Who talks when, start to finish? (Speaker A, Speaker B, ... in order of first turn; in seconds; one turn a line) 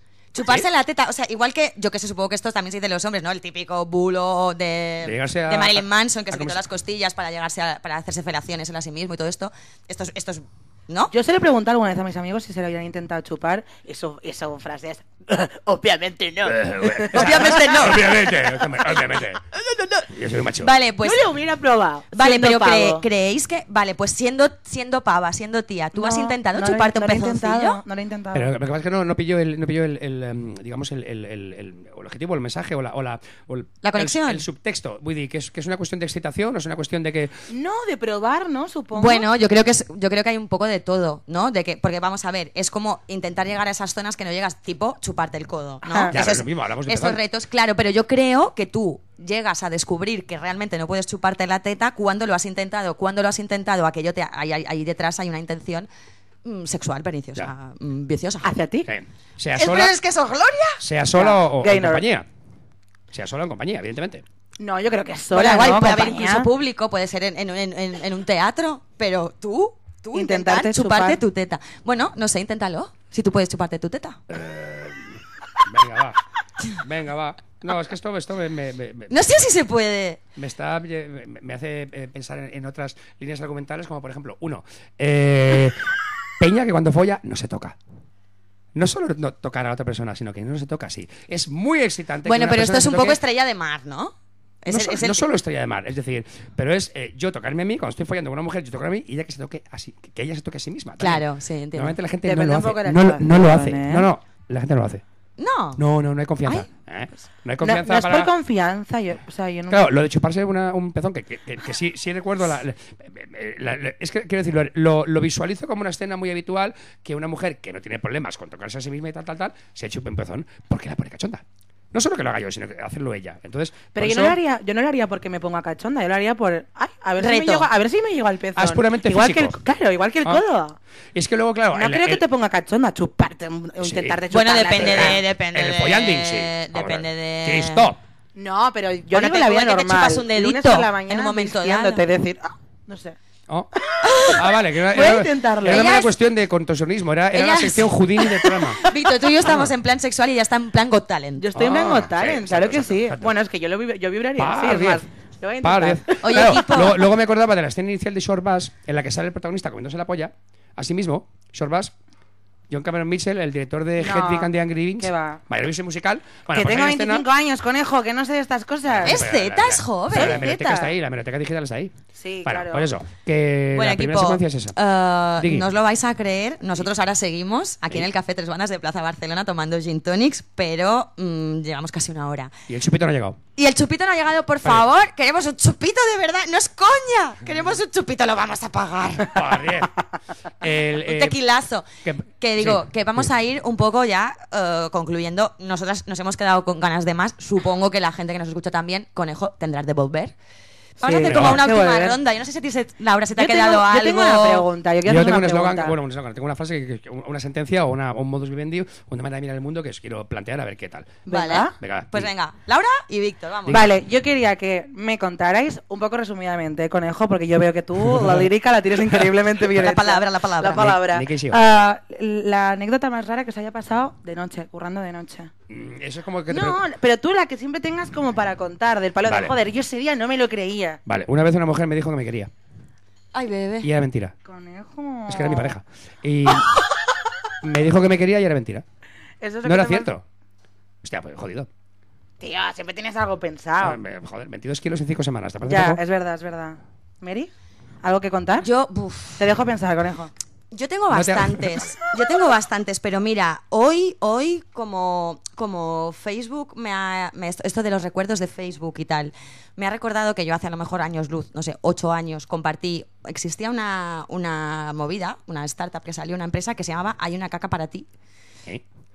Speaker A: 0.3-11.1
Speaker B: 0.4-0.7
Speaker B: 5.0-6.6
Speaker C: 11.1-18.4
Speaker B: 16.4-19.4
Speaker A: 17.1-18.2
Speaker C: 19.7-20.0
Speaker B: 20.1-20.7
Speaker A: 20.6-21.3
Speaker C: 21.0-23.0
Speaker A: 22.1-27.8
Speaker C: 25.9-28.5
Speaker B: 28.3-37.3
Speaker A: 33.8-34.4
Speaker C: 37.5-39.3
Speaker A: 38.9-55.9
Speaker C: 45.9-46.1
Speaker B: 46.1-47.2
Speaker A: 56.4-58.5
Speaker C: 58.4-58.9
Speaker B: 58.9-60.0
Speaker A: 59.5-60.8
Speaker B: 60.8-62.3
Speaker C: 61.1-62.0
Speaker B: 63.1-64.2
Speaker C: 64.6-66.5
Speaker A: 65.3-74.2
Speaker C: 70.1-71.2
Speaker B: 74.3-79.3
Speaker A: 79.1-80.2
Speaker B: 80.3-85.8
Speaker B: 86.4-87.8
Speaker B: 88.7-93.2
Speaker A: 92.2-95.2
Speaker B: 94.7-105.0
Speaker A: 101.0-102.0
Speaker C: 102.2-104.1
Speaker A: 105.4-105.8
Speaker B: 105.8-108.3
Speaker C: 107.6-109.9
Speaker B: 109.7-124.4
Speaker C: 123.9-130.8
Speaker A: 127.2-127.7
Speaker B: 128.5-129.6
Speaker B: 131.1-132.2
Speaker C: 131.7-135.2
Speaker B: 133.8-134.2
Speaker A: 134.3-137.9
Speaker B: 134.7-138.0
Speaker C: 138.3-143.2
Speaker A: 139.1-142.0
Speaker C: 143.8-145.9
Speaker A: 144.0-144.4
Speaker B: 144.3-148.8
Speaker A: 145.6-146.1
Speaker A: 147.3-148.0
Speaker A: 148.8-151.5
Speaker B: 149.4-149.7
Speaker C: 151.4-156.6
Speaker B: 151.5-153.3
Speaker B: 154.3-155.0
Speaker B: 155.6-161.9
Speaker A: 156.2-157.0
Speaker B: 162.7-167.2
Speaker C: 164.0-165.4
Speaker C: 166.5-169.3
Speaker B: 168.9-171.9
Speaker A: 169.0-170.5
Speaker C: 170.1-170.9
Speaker C: 172.2-172.9
Speaker B: 172.4-174.8
Speaker A: 173.7-182.5
Speaker B: 175.4-175.7
Speaker B: 182.7-183.4
Speaker A: 183.6-189.4
Speaker B: 189.3-189.9
Speaker B: 190.6-191.4
Speaker A: 191.0-191.8
Speaker B: 192.0-192.8
Speaker A: 192.4-200.3
Speaker A: 201.0-204.7
Speaker C: 201.0-202.2
Speaker B: 201.2-201.6
Speaker C: 203.4-205.9
Speaker B: 205.0-212.3
Speaker C: 211.3-211.7
Speaker A: 211.3-213.9
Speaker C: 213.7-225.5
Speaker B: 218.0-218.4
Speaker A: 219.7-220.9
Speaker B: 220.7-221.6
Speaker B: 225.7-226.8
Speaker C: 226.5-231.0
Speaker B: 229.2-229.5
Speaker B: 231.1-232.5
Speaker A: 233.3-233.9
Speaker B: 233.8-234.3
Speaker C: 234.4-235.8
Speaker B: 235.3-236.7
Speaker B: 237.6-238.8
Speaker C: 239.4-240.1
Speaker B: 239.6-240.2
Speaker B: 241.0-241.7
Speaker C: 242.4-244.0
Speaker B: 243.8-246.0
Speaker C: 245.7-247.5
Speaker C: 248.0-248.7
Speaker A: 248.6-249.4
Speaker C: 249.4-250.3
Speaker A: 250.7-268.1
Speaker B: 251.1-251.9